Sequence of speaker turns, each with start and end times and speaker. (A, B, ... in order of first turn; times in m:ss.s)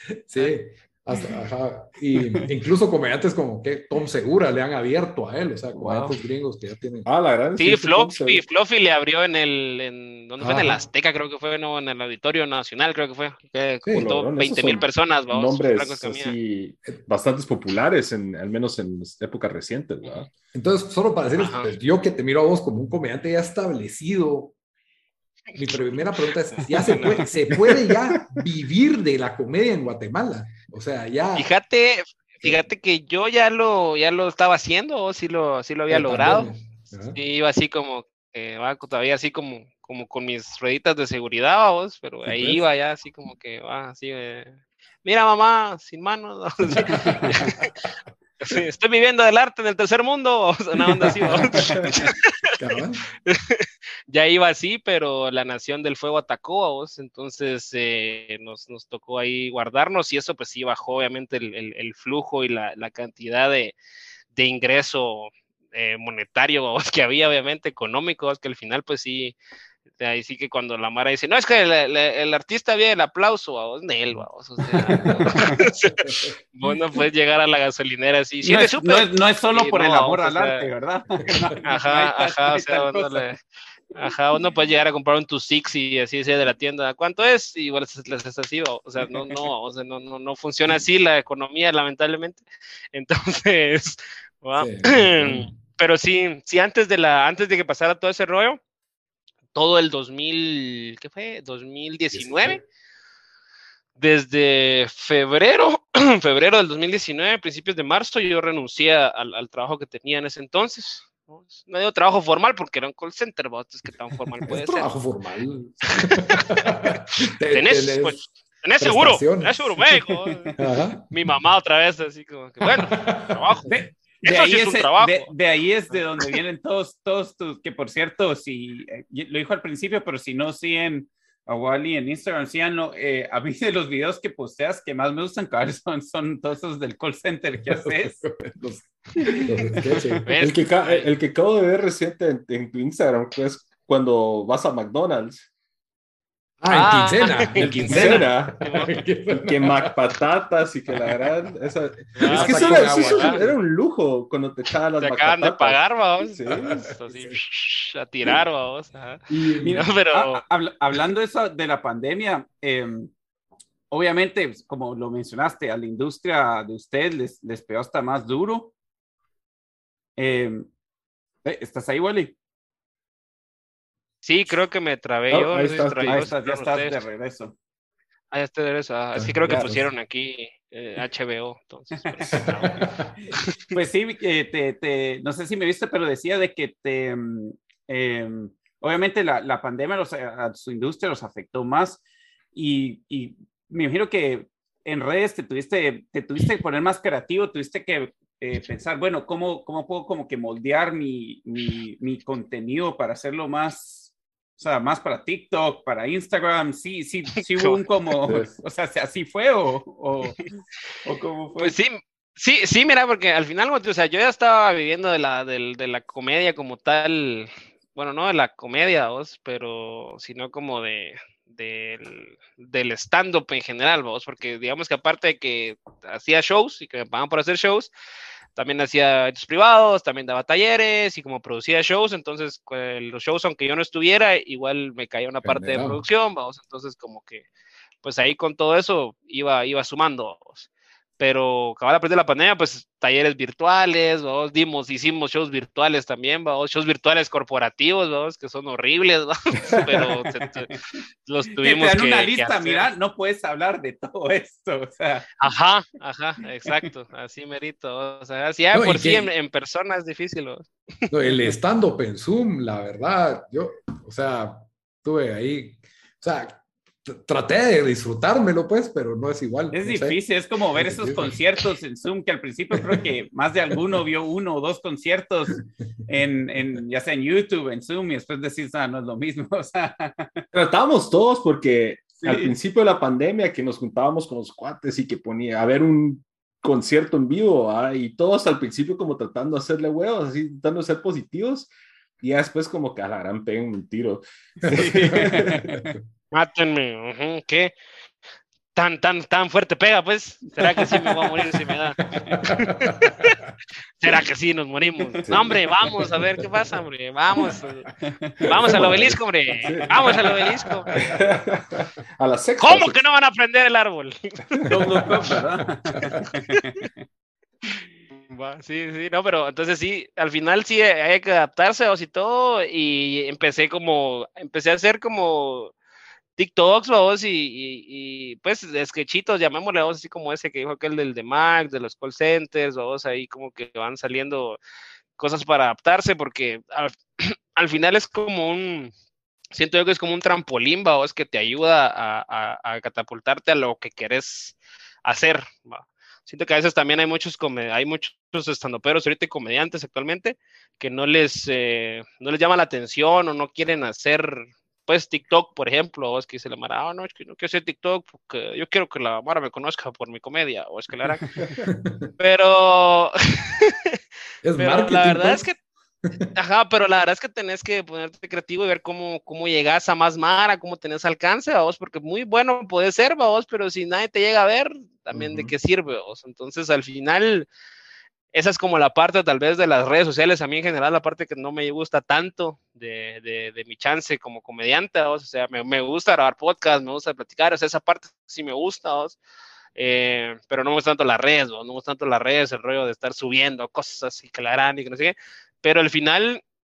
0:00.3-0:07.1 A
0:05.7-0:06.1 B
0:07.0-0:08.4 B
0:07.6-0:16.3 C
0:10.4-0:10.8 A
0:13.9-0:20.3 B
0:20.5-0:24.5 A
0:21.4-0:21.7 C
0:25.6-0:31.5 A
0:26.5-0:27.2 C
0:27.5-0:28.2 B
0:31.4-0:36.5 C
0:35.9-0:37.2 A
0:37.1-0:44.5 C
0:42.2-0:42.6 A
0:45.0-0:47.7 C
0:46.8-0:47.3 A
0:48.4-0:52.5 C
0:50.8-0:51.5 A
0:51.5-0:51.9 D
0:52.5-0:53.0 A
0:53.2-1:03.8 C
1:04.3-1:09.4 C
1:09.9-1:20.7 C
1:14.9-1:15.5 A
1:14.9-1:15.6 D
1:16.0-1:16.3 A
1:18.4-1:23.3 D
1:21.6-1:23.4 C
1:24.0-1:38.6 C
1:34.6-1:35.5 A
1:39.5-1:42.6 C
1:42.1-1:42.6 A
1:44.0-1:54.9 C
1:54.5-1:58.2 A
1:56.0-1:56.4 C
1:57.5-2:00.5 C
1:58.8-2:00.0 A
2:00.6-2:01.3 A
2:01.1-2:03.7 C
2:02.9-2:03.7 A
2:03.7-2:18.2 D
2:04.2-2:05.3 C
2:17.7-2:20.3 A
2:19.2-2:19.5 D
2:20.2-2:21.1 C
2:20.4-2:25.4 B
2:26.6-2:29.9 A
2:26.7-2:28.9 C
2:27.5-2:28.6 B
2:29.3-2:36.7 B
2:32.2-2:33.5 C
2:32.2-2:33.5 A
2:35.0-2:40.4 C
2:36.5-2:37.4 A
2:39.3-2:39.8 A
2:39.6-2:43.1 D
2:43.9-2:48.7 D
2:50.2-2:50.6 D
2:51.4-2:52.3 D
2:54.2-2:57.0 C
2:55.3-2:56.3 B
2:56.1-2:57.5 D
2:58.3-3:03.5 C
2:59.1-2:59.8 A
3:02.0-3:02.4 D
3:02.4-3:02.9 A
3:03.7-3:12.0 D
3:12.5-3:31.7 D
3:28.2-3:28.5 B
3:31.6-3:47.9 C
3:48.5-3:57.4 C
3:55.4-3:56.0 A
3:58.0-4:00.7 C
4:01.2-4:10.7 C
4:11.2-4:12.9 C
4:11.6-4:15.3 D
4:15.4-4:21.4 C
4:18.7-4:19.3 A
4:21.1-4:30.2 A
4:29.7-4:40.4 D
4:30.7-4:31.3 A
4:40.5-4:51.7 B
4:42.2-4:42.5 D
4:52.2-4:55.8 B
4:54.6-4:55.8 D
4:54.7-4:56.0 A
4:56.3-4:57.8 C
4:58.7-5:03.4 C
5:02.3-5:02.9 A
5:04.0-5:07.9 C
5:05.2-5:05.6 B
5:08.0-5:08.6 D
5:08.4-5:10.9 C
5:08.6-5:10.4 B
5:10.9-5:13.0 B
5:10.9-5:11.2 A
5:12.6-5:14.7 C
5:14.7-5:16.9 D
5:14.7-5:15.4 B
5:18.1-5:25.7 C
5:26.4-5:34.6 C
5:35.2-5:38.9 C
5:39.5-6:01.2 C
6:01.6-6:02.1 A
6:02.2-6:03.9 C
6:04.4-6:06.3 A
6:04.6-6:05.5 C
6:06.3-6:17.5 C
6:15.1-6:15.5 A
6:18.3-6:29.2 C
6:29.8-6:36.4 C